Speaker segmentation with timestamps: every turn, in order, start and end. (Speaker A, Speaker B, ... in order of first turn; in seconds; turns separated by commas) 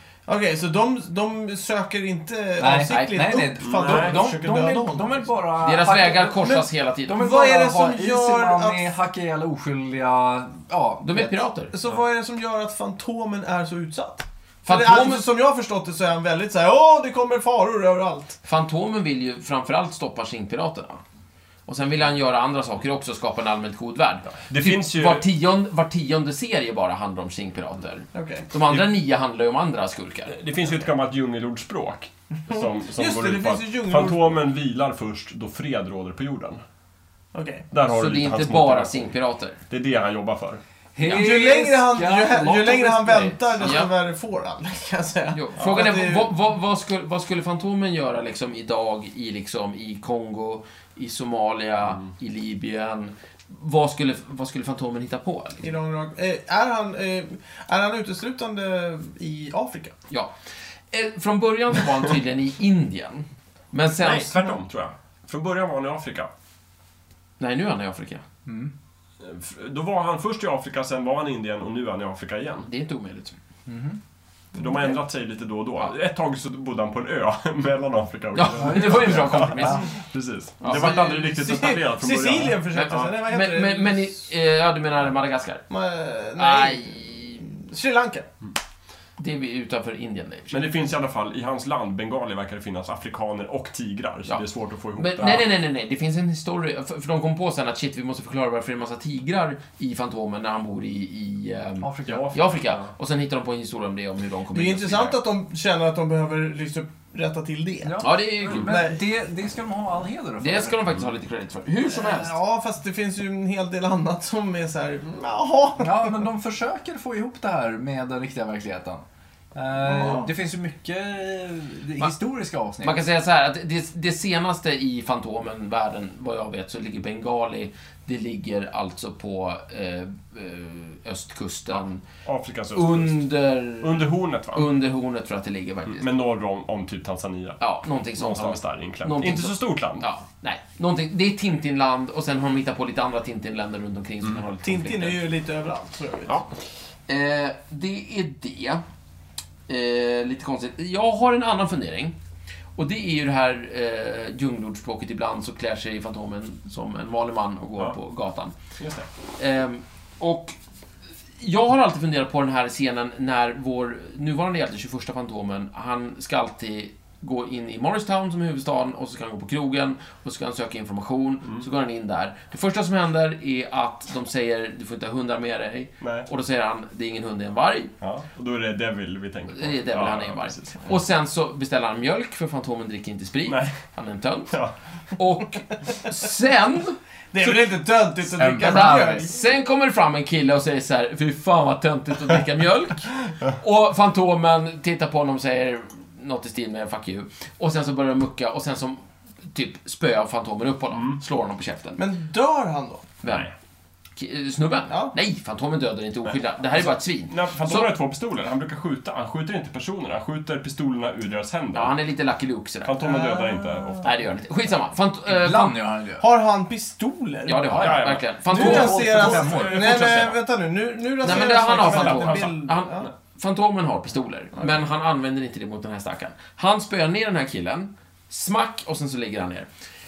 Speaker A: 0.2-5.3, Speaker B: 2.6-11.4, Speaker C: 2.9-3.4, Speaker D: 3.6-4.2, Speaker C: 5.6-7.6, Speaker A: 6.4-8.9, Speaker C: 11.0-11.7, Speaker A: 11.7-18.4, Speaker C: 14.7-15.2, Speaker C: 18.4-21.0, Speaker C: 21.7-30.5, Speaker D: 24.3-25.2, Speaker A: 28.1-28.4, Speaker D: 30.3-36.6, Speaker A: 32.9-34.4, Speaker A: 37.3-37.6, Speaker D: 37.7-39.1, Speaker C: 37.9-39.6, Speaker D: 39.7-40.6, Speaker B: 40.9-43.8, Speaker C: 41.0-41.3, Speaker A: 41.0-46.3, Speaker C: 43.6-43.9, Speaker C: 45.3-55.7, Speaker A: 55.6-59.9, Speaker C: 60.9-64.4, Speaker D: 64.0-66.3, Speaker C: 67.4-68.2, Speaker B: 68.5-68.7, Speaker D: 69.2-72.7, Speaker C: 72.7-73.3, Speaker B: 73.7-74.0, Speaker D: 74.5-83.0, Speaker C: 78.3-79.9, Speaker B: 78.5-79.8, Speaker C: 80.6-80.9, Speaker A: 80.7-84.1, Speaker C: 82.7-85.6, Speaker A: 85.7-88.3, Speaker C: 86.4-87.5, Speaker C: 89.2-90.6, Speaker D: 90.5-95.5, Speaker C: 95.0-105.2, Speaker B: 101.8-102.5, Speaker D: 102.1-102.9, Speaker A: 104.5-109.0, Speaker B: 107.8-110.8, Speaker C: 108.0-108.8, Speaker C: 110.4-112.3, Speaker A: 111.9-116.2, Speaker B: 115.8-123.0, Speaker A: 119.8-120.3, Speaker C: 122.8-132.0, Speaker D: 132.2-134.7, Speaker C: 132.7-136.1, Speaker D: 135.9-137.6, Speaker C: 137.6-145.2, Speaker D: 138.1-140.0, Speaker A: 144.6-146.4, Speaker C: 147.1-148.8, Speaker C: 149.7-152.2, Speaker C: 152.8-158.5, Speaker D: 158.8-159.1, Speaker C: 159.4-160.5, Speaker C: 161.4-177.9, Speaker D: 176.0-176.3, Speaker D: 178.0-180.9, Speaker C: 179.5-184.5, Speaker D: 183.5-183.8, Speaker C: 185.2-187.6, Speaker A: 187.3-189.3, Speaker B: 188.3-189.3, Speaker C: 188.6-202.0, Speaker D: 200.9-201.2, Speaker A: 202.0-203.1, Speaker C: 203.2-203.5, Speaker D: 203.3-203.5, Speaker C: 204.2-207.9, Speaker A: 204.9-205.2, Speaker D: 206.3-211.9, Speaker C: 211.7-212.9, Speaker D: 212.8-214.1, Speaker A: 213.0-213.9, Speaker C: 214.0-215.7, Speaker B: 215.2-216.3, Speaker A: 216.2-217.9, Speaker C: 217.4-220.3, Speaker B: 217.7-219.9, Speaker D: 217.8-220.3, Speaker A: 218.5-223.1, Speaker C: 221.2-229.7, Speaker D: 221.2-222.6